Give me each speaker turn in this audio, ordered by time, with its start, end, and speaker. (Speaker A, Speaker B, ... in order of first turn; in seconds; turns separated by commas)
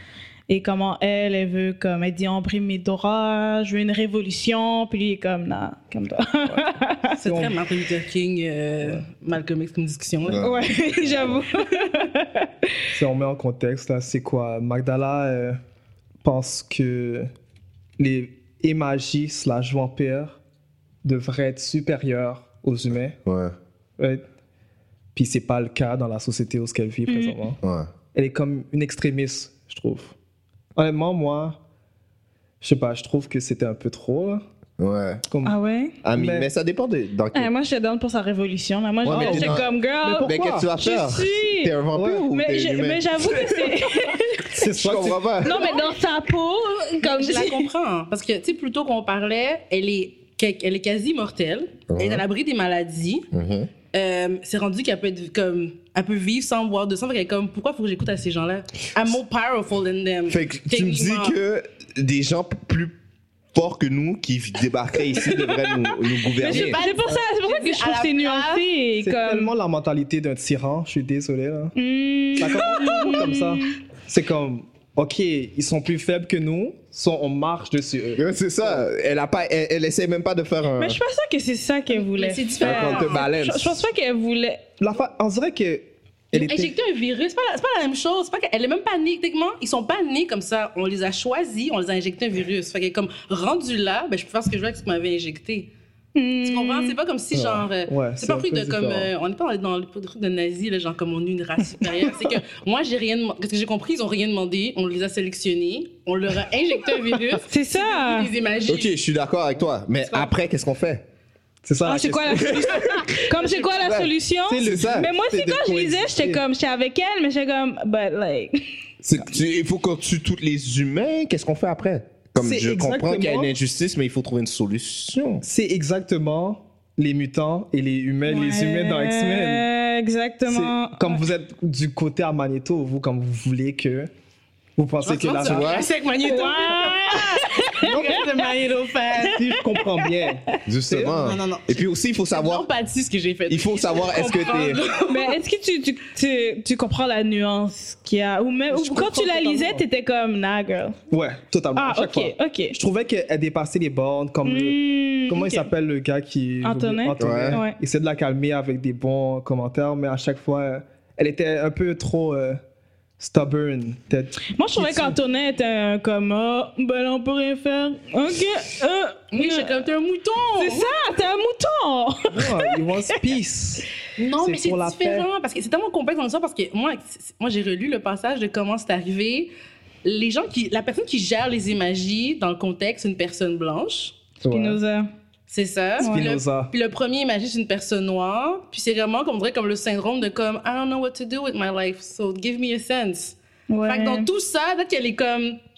Speaker A: 0.5-7.2, Speaker B: 7.2-10.4, Speaker C: 7.2-7.5, Speaker D: 10.2-11.3, Speaker A: 10.4-12.8, Speaker C: 12.9-15.6, Speaker C: 16.2-17.3, Speaker C: 18.0-20.4, Speaker C: 21.0-23.2, Speaker D: 23.2-23.5, Speaker C: 24.0-24.2, Speaker C: 25.1-27.6, Speaker A: 27.1-27.4, Speaker D: 27.6-27.9, Speaker C: 28.1-30.1, Speaker C: 30.7-31.6, Speaker C: 32.6-34.4, Speaker D: 34.8-35.2, Speaker C: 35.3-35.5, Speaker A: 35.4-36.0, Speaker D: 36.0-37.5, Speaker C: 36.1-36.5, Speaker A: 37.3-41.8, Speaker D: 39.0-39.7, Speaker C: 39.0-40.7, Speaker D: 40.2-43.7, Speaker C: 41.9-42.3, Speaker A: 42.3-44.6, Speaker C: 44.5-45.4, Speaker D: 44.6-45.6, Speaker A: 45.4-47.7, Speaker B: 47.0-53.3, Speaker D: 51.9-52.2, Speaker D: 53.3-53.7, Speaker B: 53.9-61.4, Speaker D: 60.3-62.9, Speaker D: 63.5-66.8, Speaker B: 66.4-68.6, Speaker A: 66.4-69.5, Speaker C: 69.0-71.7, Speaker A: 71.7-73.8, Speaker C: 72.4-78.8, Speaker D: 78.2-81.0, Speaker A: 80.8-84.6, Speaker B: 81.9-83.2, Speaker D: 82.6-83.8, Speaker C: 84.8-86.7, Speaker B: 86.3-95.7, Speaker A: 96.1-97.0, Speaker B: 96.4-108.9, Speaker C: 97.3-99.1, Speaker A: 107.5-108.3, Speaker D: 108.7-111.0, Speaker C: 111.6-112.6, Speaker A: 111.8-118.6, Speaker D: 112.3-115.1, Speaker C: 114.5-116.4, Speaker D: 119.0-125.4, Speaker C: 122.4-123.5, Speaker C: 125.4-129.7, Speaker A: 128.2-131.2, Speaker C: 130.5-134.1, Speaker C: 134.8-135.7, Speaker B: 135.0-139.5, Speaker D: 135.4-135.9, Speaker A: 136.2-138.4, Speaker C: 137.8-138.1, Speaker C: 139.2-141.2, Speaker A: 139.6-140.1, Speaker D: 140.7-142.7, Speaker B: 140.9-145.4, Speaker D: 143.5-144.8, Speaker A: 145.1-151.0, Speaker C: 148.7-149.8, Speaker C: 151.1-162.6, Speaker A: 151.7-152.7, Speaker A: 154.4-155.7, Speaker A: 156.6-157.8, Speaker D: 157.2-157.6, Speaker C: 163.2-165.2, Speaker A: 164.5-169.8, Speaker B: 169.3-170.9, Speaker A: 170.6-173.2, Speaker C: 172.3-173.9, Speaker B: 174.2-179.5, Speaker C: 174.4-175.3, Speaker B: 180.0-184.2, Speaker C: 184.4-184.8, Speaker A: 184.4-185.1, Speaker B: 185.5-195.6, Speaker A: 186.0-186.2, Speaker C: 186.0-186.7, Speaker A: 193.7-194.3